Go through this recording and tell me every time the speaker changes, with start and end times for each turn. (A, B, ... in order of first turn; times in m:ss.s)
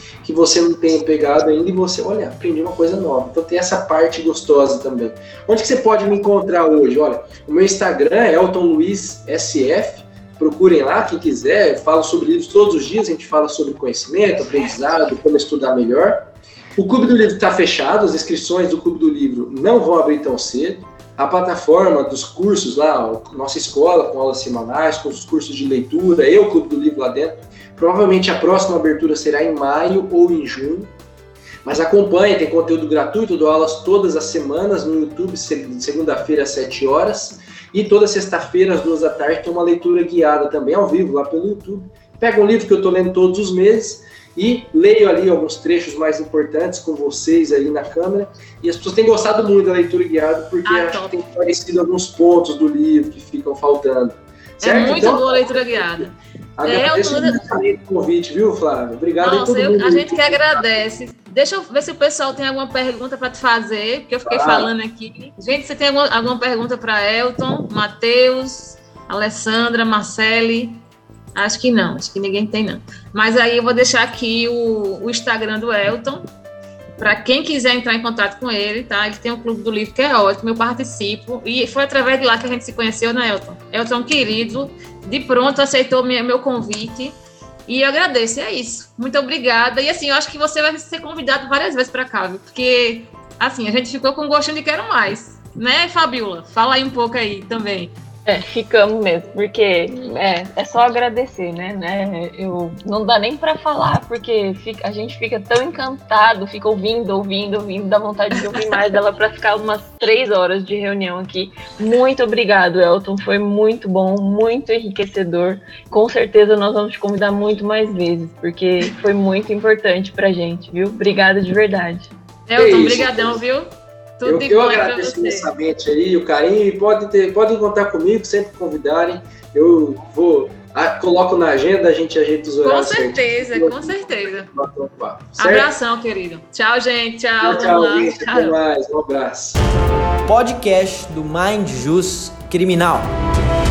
0:00.2-0:30.9 A
0:31.6-1:00.8 A
0:50.6-0:51.2 B
0:54.6-0:56.1 B
0:56.7-0:57.4 B
0:59.2-1:10.8 B
1:04.2-1:04.7 A
1:11.4-1:16.3 B
1:17.0-1:37.9 B
1:38.3-2:02.1 C
2:02.5-2:05.5 B
2:02.6-2:03.4 A
2:04.2-2:15.7 A
2:12.6-2:14.5 B
2:15.4-2:18.6 B
2:17.4-2:19.6 A
2:20.2-2:23.1 D